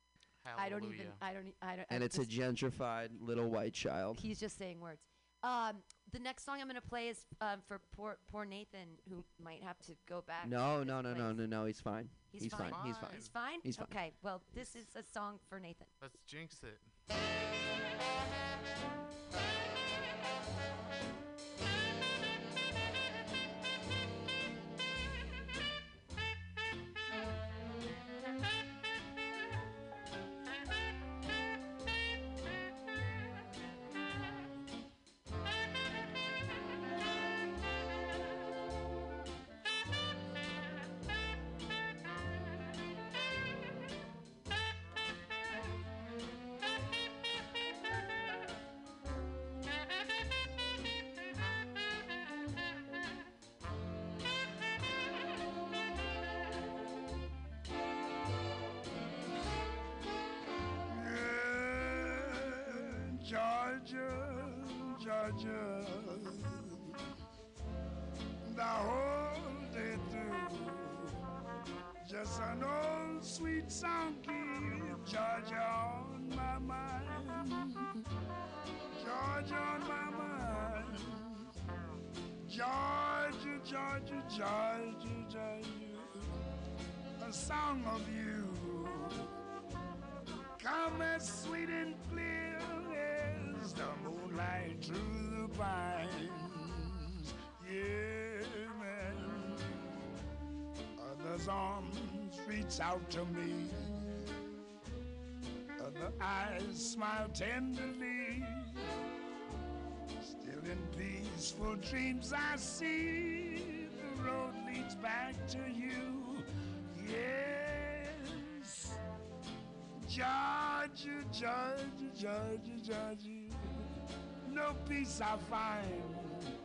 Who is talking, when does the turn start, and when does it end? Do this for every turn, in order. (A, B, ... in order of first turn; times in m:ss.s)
0:00.4-0:01.2 A
0:00.6-0:02.3 B
0:01.9-0:04.3 C
0:04.1-0:11.4 B
0:10.4-0:13.9 C
0:12.3-0:15.9 B
0:12.6-0:13.3 A
0:16.0-0:17.0 A
1:00.9-1:06.9 D
1:08.4-1:11.1 D
1:12.0-1:17.8 D
1:19.0-1:21.3 D
1:22.5-1:26.3 D
1:27.2-1:29.2 D
1:30.6-1:39.7 D
1:41.0-1:44.0 D
1:45.8-1:48.8 D
1:50.4-1:59.0 D
2:00.1-2:03.8 D
2:04.4-2:06.4 D